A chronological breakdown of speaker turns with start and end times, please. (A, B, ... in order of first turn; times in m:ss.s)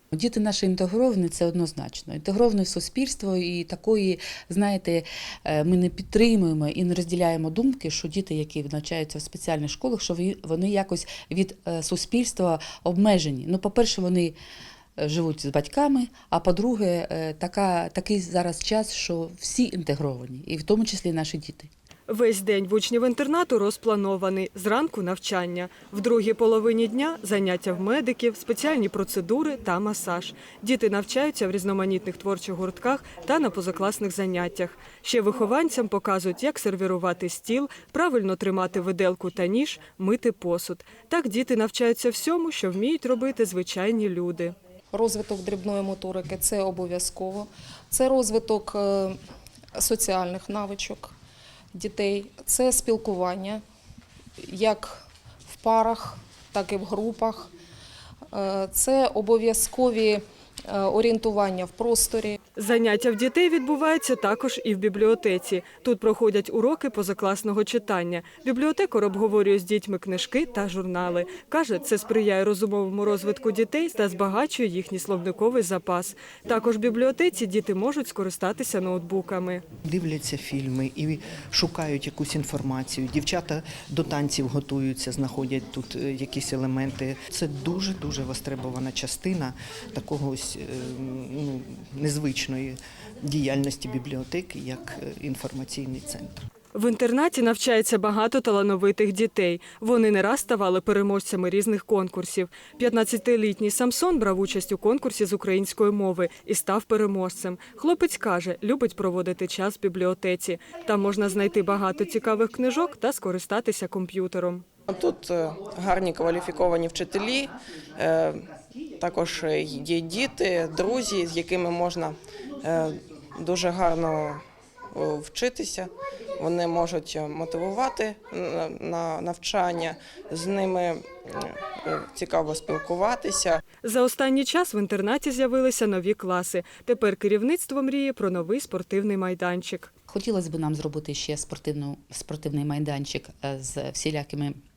0:00.1-0:14.4 A
0:15.0-0:21.7 A
0:22.1-0:44.6 B
0:44.9-0:49.2 C
0:49.8-0:51.1 C
0:51.7-0:53.6 C
0:54.4-0:57.5 C
0:58.3-1:02.4 C
1:02.6-1:19.6 B
1:19.9-1:36.5 D
1:36.7-1:54.6 B
1:54.9-1:58.5 E
1:59.0-2:04.4 E
2:04.9-2:13.6 E
2:13.8-2:19.9 B
2:20.1-2:24.6 A